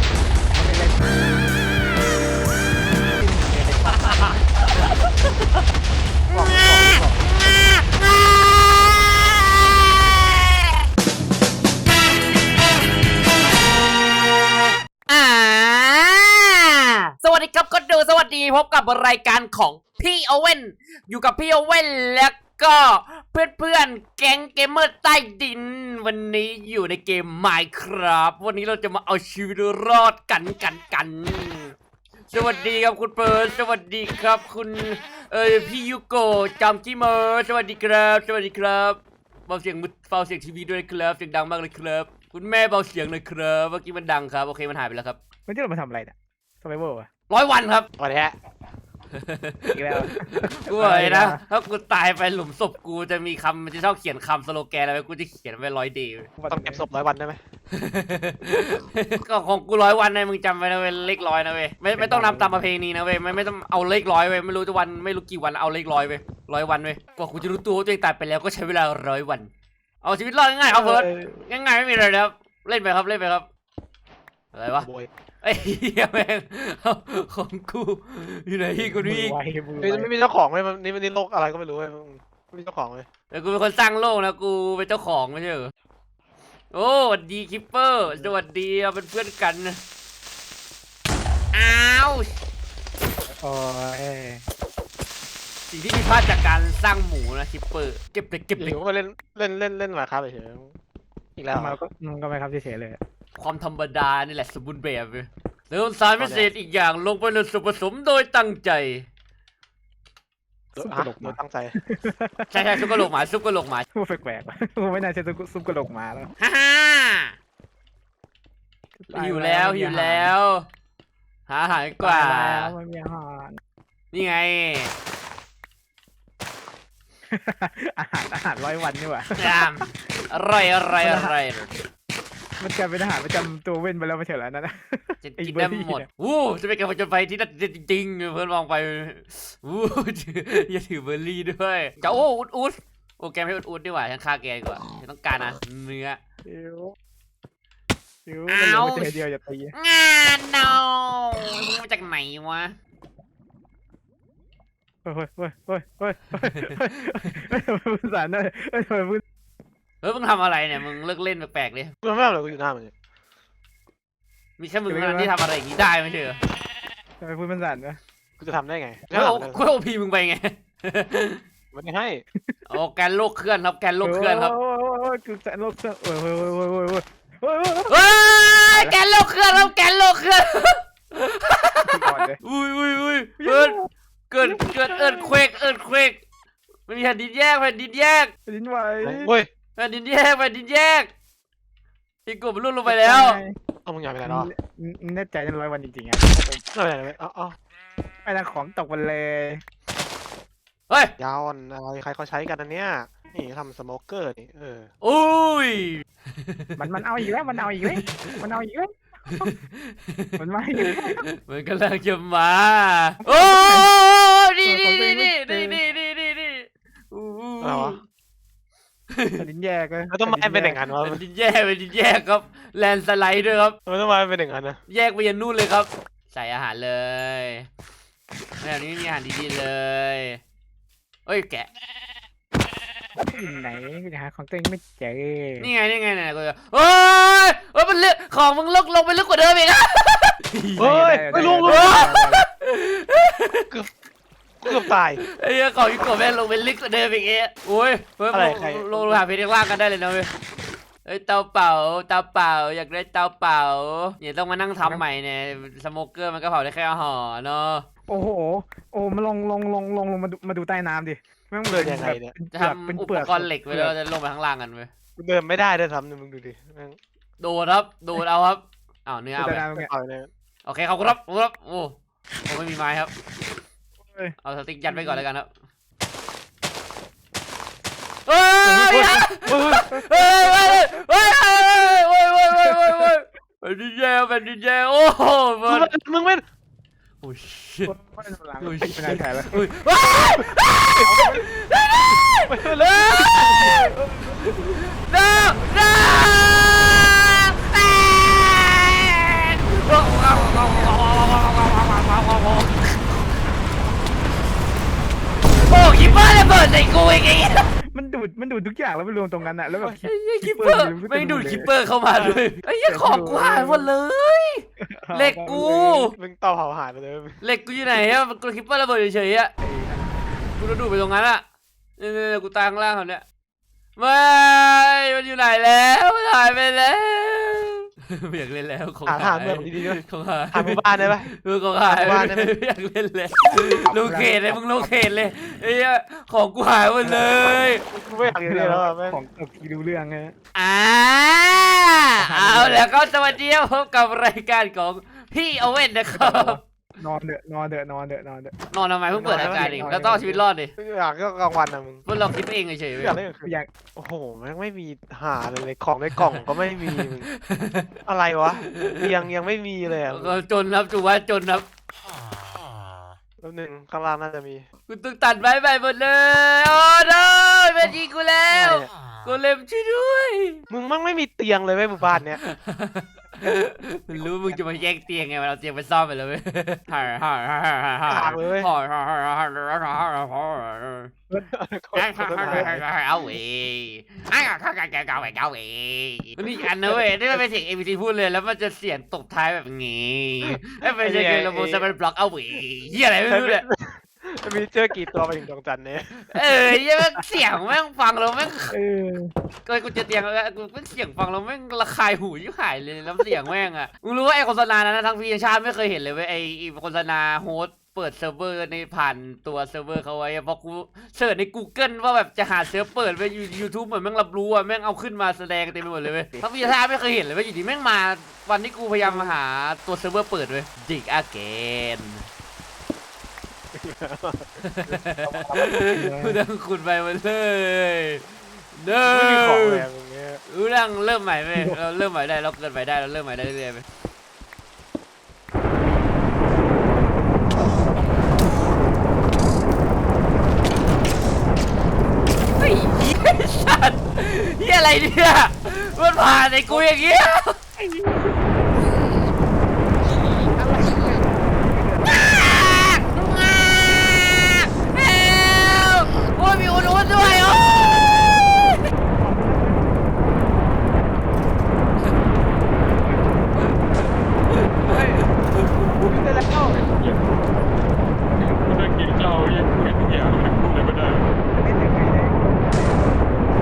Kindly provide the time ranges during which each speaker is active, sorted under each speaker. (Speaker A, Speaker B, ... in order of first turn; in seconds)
Speaker A: 0.5-1.3, 3.0-4.4, 45.5-47.1, 49.7-51.4, 56.4-56.9, 61.9-62.6, 70.7-71.4, 78.8-80.1, 88.1-88.3, 93.4-94.4, 101.5-103.0, 110.7-113.1, 113.9-116.3, 119.0-120.3, 122.0-123.6, 127.3-129.7, 131.0-131.3, 132.6-136.1, 146.4-146.9, 148.3-149.7, 155.0-159.2, 164.9-165.3, 167.2-168.0, 174.0-178.0, 178.7-179.0, 181.8-182.4, 183.4-183.9, 188.5-189.3, 192.8-193.5, 194.2-196.6, 198.2-199.6, 206.8-209.5, 210.4-211.2, 213.2-213.9, 214.6-215.8, 219.4-220.8, 233.2-235.7, 240.8-242.4, 258.1-263.9, 269.4-269.9, 274.0-274.3, 274.9-275.2, 278.6-279.3, 279.9-281.0, 282.6-283.1, 287.9-290.3, 291.1-291.3, 293.5-294.7, 295.2-297.2, 305.9-306.4, 307.9-313.9, 314.8-316.1, 319.6-320.4, 333.5-334.9, 337.0-337.5, 338.2-340.3, 342.2-342.9, 346.1-348.5, 349.2-350.4, 382.4-382.8, 398.7-399.3, 416.2-416.5, 424.9-426.4, 431.5-431.8, 447.8-448.9, 450.4-452.7, 459.1-461.3, 462.7-464.1, 466.1-466.6, 471.4-473.1
Speaker B: 3.9-5.1, 6.3-10.7, 15.1-31.7, 32.3-45.2, 47.3-47.9, 49.1-56.3, 57.7-69.5, 70.0-73.5, 74.5-74.9, 75.4-79.4, 83.3-85.7, 86.7-89.8, 91.5-92.3, 95.7-98.8, 103.4-109.0, 112.5-113.8, 116.4-117.3, 119.1-120.6, 121.5-122.7, 124.1-124.9, 129.3-131.7, 135.2-146.2, 148.5-149.2, 149.7-152.7, 160.0-161.9, 164.6-166.4, 169.1-171.4, 172.7-174.5, 177.9-183.8, 184.3-186.2, 186.9-188.3, 189.8-191.1, 192.2-193.4, 205.0-206.8, 207.8-208.4, 209.4-218.0, 221.0-223.8, 224.9-227.7, 228.6-230.4, 231.2-231.7, 235.6-243.6, 244.7-250.3, 251.0-257.9, 262.5-264.9, 267.4-269.7, 270.6-271.9, 272.4-273.1, 274.4-275.5, 278.2-285.9, 287.2-287.9, 288.6-293.8, 295.0-303.2, 305.6-307.7, 310.0-316.1, 317.4-319.5, 320.6-321.4, 322.0-323.2, 324.0-337.8, 340.5-346.6, 348.7-350.7, 352.1-353.2, 356.2-357.9, 358.7-359.0, 360.0-361.6, 364.9-370.6, 372.4-381.1, 381.9-393.6, 396.3-398.7, 399.6-422.2, 424.6-429.9, 430.5-433.8, 442.6-447.6, 452.1-458.3, 462.0-462.2, 464.5-466.1
Speaker C: 6.3-7.4, 48.0-48.4, 56.5-57.4, 74.8-75.1, 79.8-83.0, 98.5-100.7, 101.4-101.8, 106.2-106.5, 110.8-111.7, 162.0-162.9, 168.4-169.6, 171.7-172.2, 184.6-184.9, 189.0-189.5, 193.8-194.5, 196.7-197.6, 201.2-204.9, 217.6-218.0, 220.1-221.2, 223.8-224.8, 240.8-242.1, 244.6-245.2, 248.3-249.2, 261.7-262.3, 265.2-267.0, 269.7-270.3, 278.9-279.9, 285.7-286.4, 290.2-291.5, 292.4-293.8, 316.1-317.4, 329.1-332.5, 337.9-339.2, 349.1-349.9, 350.8-352.1, 352.9-357.3, 358.1-360.4, 363.4-364.6, 368.5-368.9, 370.7-372.4, 374.1-374.6, 378.1-378.7, 381.5-382.8, 386.4-387.4, 390.6-391.9, 393.3-396.4, 419.0-419.4, 423.7-424.5, 429.0-430.4, 466.1-466.8
Speaker D: 466.8-467.2, 468.4-471.3